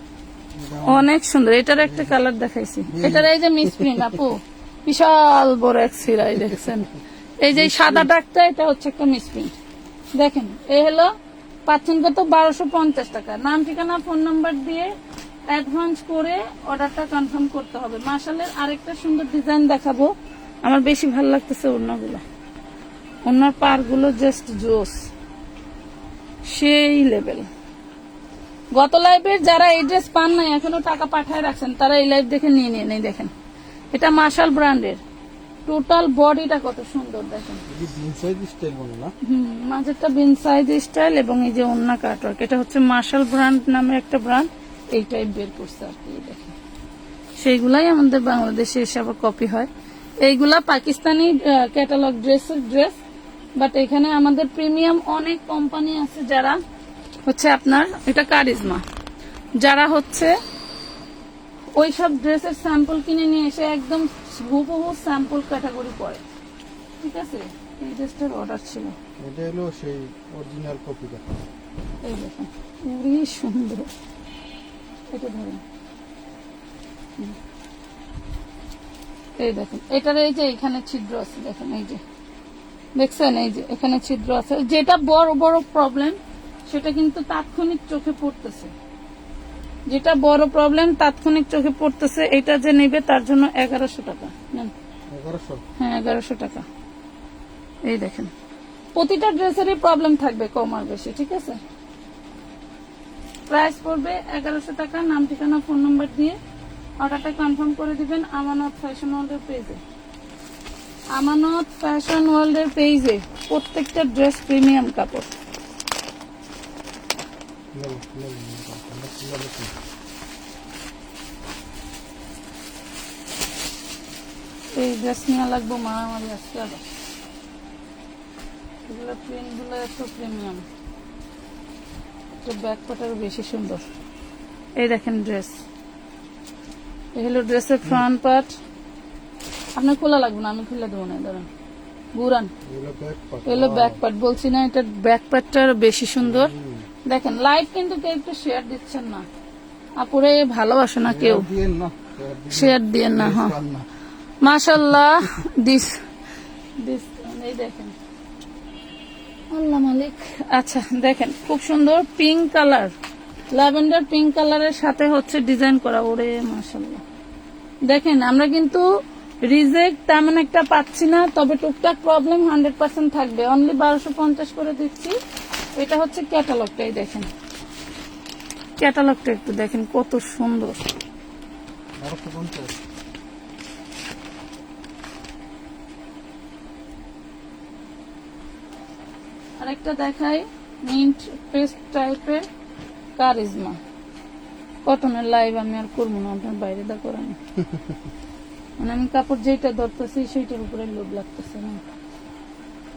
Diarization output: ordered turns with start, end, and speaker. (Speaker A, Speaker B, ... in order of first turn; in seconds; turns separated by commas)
Speaker A: 0.5-1.1, Speaker B: 0.8-6.9, Speaker A: 1.8-2.1, Speaker A: 2.9-4.2, Speaker A: 6.3-6.7, Speaker B: 7.4-9.5, Speaker A: 7.5-8.1, Speaker B: 10.2-11.1, Speaker B: 11.7-14.9, Speaker B: 15.5-20.1, Speaker B: 20.6-22.2, Speaker B: 23.2-25.0, Speaker B: 26.4-27.5, Speaker B: 28.7-33.3, Speaker B: 33.9-35.0, Speaker B: 35.6-37.6, Speaker A: 37.7-39.1, Speaker B: 39.2-46.5, Speaker B: 47.4-49.7, Speaker B: 50.2-53.0, Speaker B: 53.6-56.6, Speaker B: 57.2-58.8, Speaker B: 59.6-60.4, Speaker B: 61.8-66.2, Speaker B: 67.0-68.9, Speaker A: 69.2-71.3, Speaker B: 72.0-73.9, Speaker B: 75.1-75.6, Speaker B: 79.4-82.0, Speaker B: 83.0-86.2, Speaker B: 86.7-88.7, Speaker B: 89.9-94.7, Speaker A: 95.1-95.6, Speaker B: 95.8-96.7, Speaker B: 97.8-98.3, Speaker B: 98.9-101.6, Speaker B: 103.5-106.4, Speaker B: 107.0-109.8, Speaker B: 111.1-115.3, Speaker A: 117.7-119.7, Speaker B: 124.8-126.8, Speaker B: 128.8-130.6, Speaker B: 132.4-133.8, Speaker B: 134.8-135.6, Speaker B: 137.1-138.5, Speaker B: 139.8-141.5, Speaker B: 142.1-142.5, Speaker A: 142.6-144.0, Speaker B: 143.4-146.5, Speaker A: 146.2-146.9, Speaker B: 147.1-149.3, Speaker B: 150.0-151.4, Speaker A: 151.0-153.9, Speaker B: 152.5-153.5, Speaker B: 154.4-156.0, Speaker B: 156.8-157.9, Speaker B: 159.5-162.9, Speaker B: 163.5-167.0, Speaker B: 167.9-168.8, Speaker B: 169.4-175.2, Speaker B: 175.8-177.3, Speaker B: 178.8-180.8, Speaker A: 182.0-182.8, Speaker B: 189.6-192.4, Speaker B: 193.2-193.8, Speaker B: 194.8-197.4, Speaker B: 198.8-201.8